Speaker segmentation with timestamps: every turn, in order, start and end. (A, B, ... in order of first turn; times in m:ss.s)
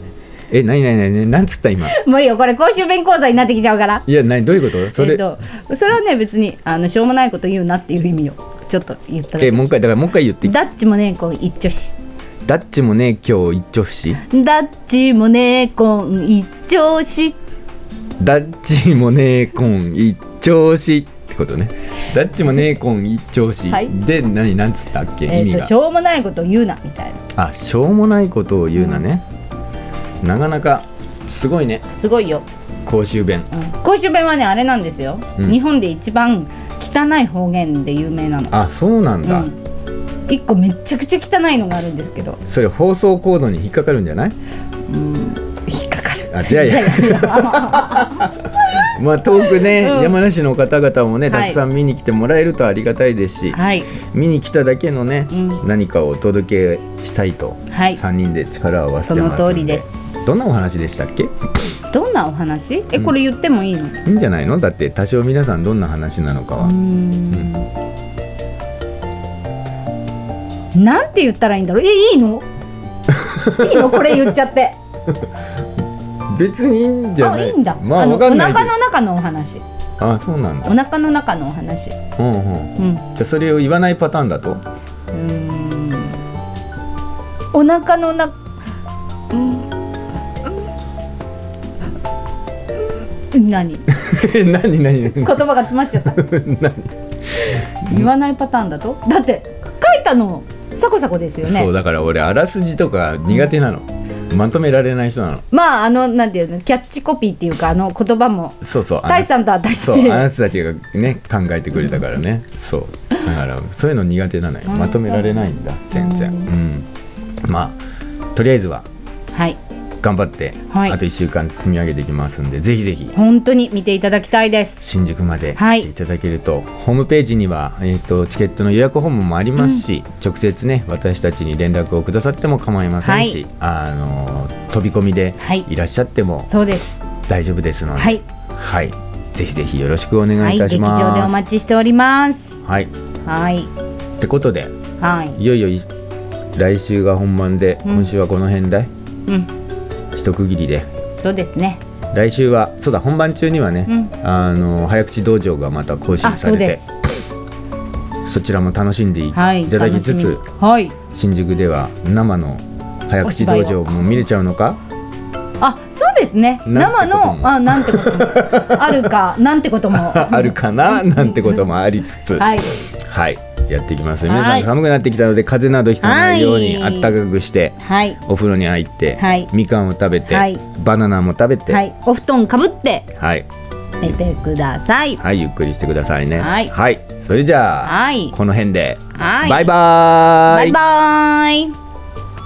0:00.5-0:02.0 A
0:01.9-0:04.1 B
0:04.1-0:05.3 A
0:04.9-0:09.7 B
0:09.4-0:10.6 A
0:10.4-0:12.0 B
0:12.5-0:14.2 A
0:14.3-0:17.4 B
0:18.2-0:25.7 A
0:25.3-0:27.2 B
0:27.4-0:29.2 A
0:28.8-0:29.0 B
0:30.2-0:31.8 A
0:31.9-0:32.4 B
0:32.8-0:33.5 A
0:33.5-0:38.6 B
0:38.5-0:39.5 A
0:39.2-0:39.6 B
0:40.3-0:42.4 B
0:42.4-0:44.4 A
0:44.9-0:48.9 B
0:46.3-1:01.3 A
0:49.4-0:50.2 B
0:51.3-0:51.6 B
0:53.5-0:53.9 B
0:55.3-0:55.6 B
0:57.7-0:58.0 B
0:59.0-1:00.0 B
1:01.9-1:04.0 B
1:04.0-1:06.8 A
1:06.6-1:07.7 B
1:10.7-1:12.5 B
1:13.1-1:14.3 A
1:13.4-1:14.8 B
1:16.3-1:18.7 A
1:17.2-1:19.6 B
1:20.0-1:20.8 A
1:20.7-1:22.0 B
1:22.2-1:24.6 A
1:22.8-1:23.0 B
1:25.1-1:26.2 B
1:27.5-1:28.4 B
1:29.3-1:29.7 B
1:33.3-1:33.9 B
1:33.9-1:38.1 A
1:35.2-1:36.2 B
1:37.9-1:41.7 B
1:41.4-1:45.4 A
1:45.5-1:50.3 B
1:48.6-1:56.9 A
1:54.7-1:56.5 B
1:57.4-1:57.8 A
1:58.4-1:58.9 A
1:59.3-1:59.6 B
2:00.0-2:03.2 A
2:00.7-2:01.0 B
2:03.2-2:04.9 B
2:04.8-2:16.5 A
2:05.6-2:05.9 B
2:09.6-2:09.8 B
2:13.0-2:13.4 B
2:15.4-2:15.7 B
2:16.5-2:17.0 B
2:17.3-2:21.4 A
2:18.0-2:18.2 B
2:20.4-2:22.6 B
2:22.6-2:22.9 A
2:23.3-2:23.7 B
2:24.2-2:24.7 A
2:25.0-2:25.4 B
2:25.4-2:25.9 A
2:26.6-2:28.9 A
2:30.1-2:30.9 A
2:31.2-2:31.8 B
2:32.1-2:36.8 A
2:33.9-2:34.1 B
2:36.2-2:37.0 B
2:38.2-2:40.4 A
2:39.3-2:41.0 B
2:41.1-2:44.8 A
2:43.2-2:44.2 B
2:45.6-2:51.6 B
2:46.7-2:49.1 A
2:49.9-3:01.8 A
2:52.4-2:52.8 B
2:54.3-2:54.7 B
2:56.0-2:57.2 B
2:57.8-2:58.2 B
2:59.2-2:59.5 B
3:00.3-3:00.6 B
3:01.7-3:03.1 B
3:03.2-3:03.5 A
3:04.0-3:05.2 B
3:05.2-3:10.8 A
3:06.4-3:06.7 B
3:07.8-3:08.4 B
3:09.1-3:09.7 B
3:10.5-3:11.8 B